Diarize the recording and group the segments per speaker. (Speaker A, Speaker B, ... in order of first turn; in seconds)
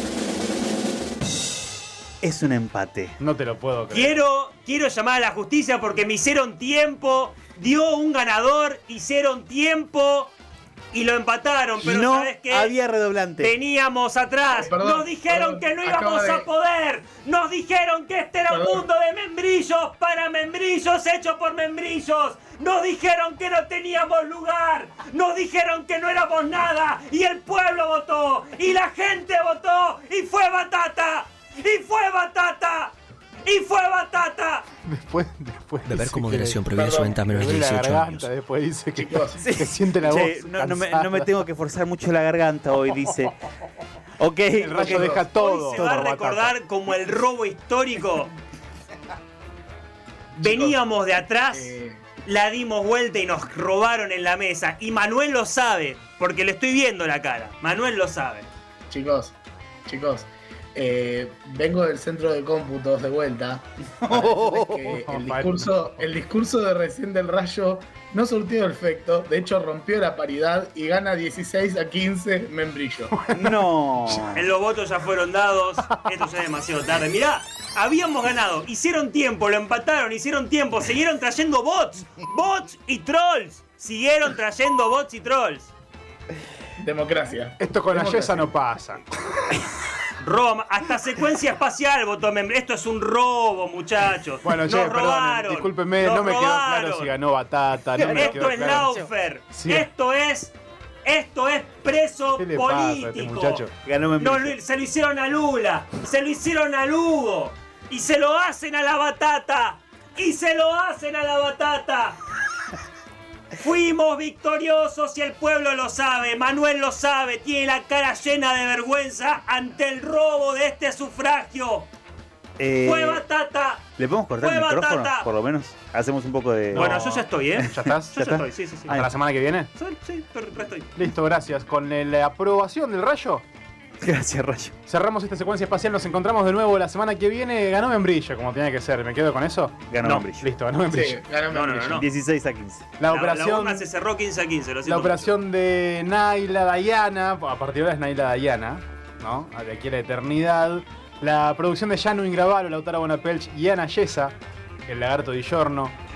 Speaker A: 2.2-3.1, 11.8-13.5, 39.4-43.3, 44.2-45.2, 64.0-64.8, 73.3-74.4, 98.0-99.1, 103.8-104.5, 122.6-123.2, 124.0-126.9, 128.2-129.1, 134.0-134.7, 139.9-140.5, 141.9-142.9
Speaker B: 3.2-4.2, 34.8-36.7, 37.3-41.4, 44.5-46.5, 64.9-66.1, 73.1-74.4, 75.8-76.2, 87.6-89.6, 94.4-99.0, 99.5-99.9, 102.4-103.7, 126.7-128.3, 128.9-129.7, 130.9-133.4, 134.8-141.2, 143.0-143.9, 144.8-154.3, 154.9-155.9
Speaker C: 3.9-10.3, 10.9-12.7, 13.4-32.9, 33.4-34.6, 45.2-48.3, 50.4-58.5, 74.3-85.7, 90.2-97.1, 98.0-100.5, 101.0-103.6, 104.2-112.2, 113.6-121.9, 122.8-125.3, 126.7-129.0, 129.7-130.9, 140.0-140.3, 141.5-142.1, 143.0-145.3
Speaker D: 14.5-16.5, 18.5-18.9, 36.8-37.2, 38.9-39.4, 50.4-50.8, 51.5-52.0, 58.9-73.1, 86.8-88.5, 140.9-142.0
Speaker E: 35.9-38.2